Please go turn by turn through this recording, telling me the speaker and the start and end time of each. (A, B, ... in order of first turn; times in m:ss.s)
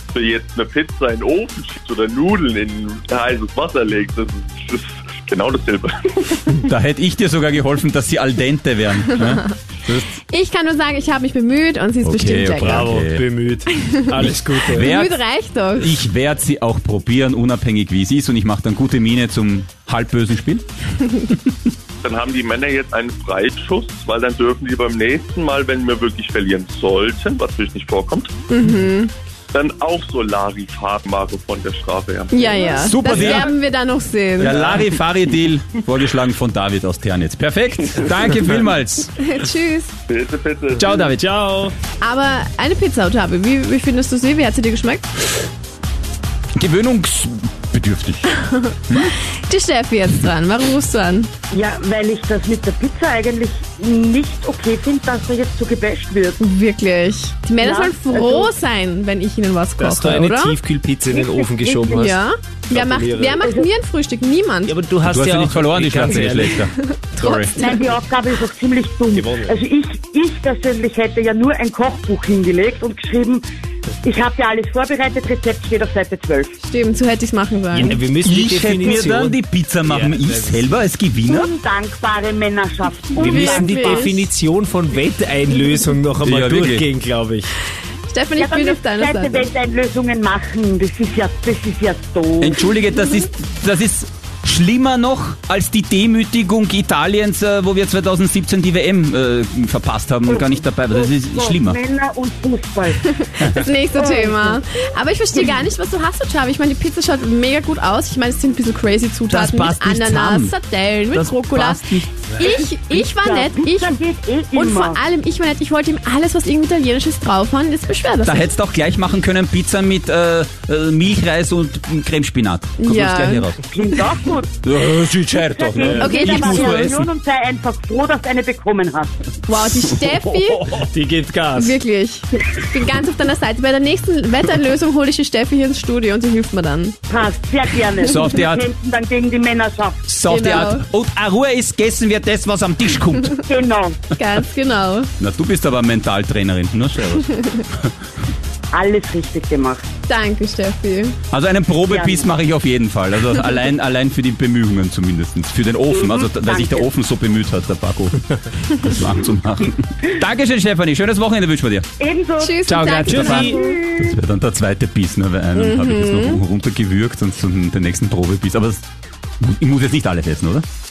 0:00.1-0:06.5 A
0:06.6-0:10.2 B
0:10.3-0:12.9 C
0:12.0-0:13.2 B
0:12.7-0:14.9 D
0:13.8-0:16.0 C
0:14.2-0:15.2 B
0:15.8-0:20.6 B
0:22.0-0:28.3 A
0:28.5-0:29.1 C
0:29.5-0:33.4 A
0:32.3-0:34.7 C
0:32.8-0:33.5 B
0:34.4-0:39.1 B
0:34.5-0:34.9 A
0:39.2-0:39.9 C
0:40.1-0:41.1 A
0:40.8-0:41.3 B
0:41.2-0:41.7 D
0:42.0-0:45.2 C
0:46.6-0:48.3 B
0:48.9-0:49.1 B
0:49.5-0:51.3 C
0:51.5-0:56.4 E
0:56.4-1:00.6 C
0:57.6-0:58.5 E
0:59.8-1:03.4 D
1:01.1-1:02.0 E
1:01.9-1:04.8 C
1:03.4-1:03.7 E
1:04.7-1:06.6 D
1:05.0-1:07.6 B
1:06.5-1:07.9 C
1:07.6-1:13.4 E
1:09.1-1:09.5 D
1:14.0-1:16.5 E
1:16.6-1:18.0 C
1:17.7-1:20.6 D
1:18.2-1:21.5 B
1:21.3-1:24.1 E
1:23.2-1:24.3 C
1:23.2-1:27.5 D
1:26.2-1:26.9 B
1:28.1-1:29.5 C
1:28.4-1:32.6 E
1:32.4-1:41.8 B
1:40.3-1:43.3 E
1:43.5-1:58.5 C
1:43.9-1:44.6 E
1:45.3-1:45.6 E
1:49.3-1:50.6 B
1:51.1-1:52.1 B
1:52.8-1:55.0 E
1:58.2-2:03.6 B
2:02.8-2:03.5 C
2:03.7-2:04.6 E
2:04.6-2:07.1 B
2:05.3-2:09.1 E
2:06.0-2:06.9 C
2:09.5-2:10.7 C
2:09.7-2:10.4 B
2:10.6-2:11.8 D
2:11.6-2:17.0 C
2:17.1-2:20.0 E
2:18.1-2:18.7 B
2:20.1-2:23.4 B
2:20.3-2:20.8 C
2:23.5-2:24.0 E
2:24.2-2:25.1 C
2:25.2-2:27.9 B
2:28.7-2:29.8 E
2:30.1-2:31.2 C
2:31.3-2:41.9 B
2:31.9-2:32.2 E
2:36.0-2:36.9 E
2:42.0-2:43.9 E
2:42.4-2:44.0 C
2:42.7-2:48.8 B
2:45.6-2:46.4 C
2:49.4-2:50.6 B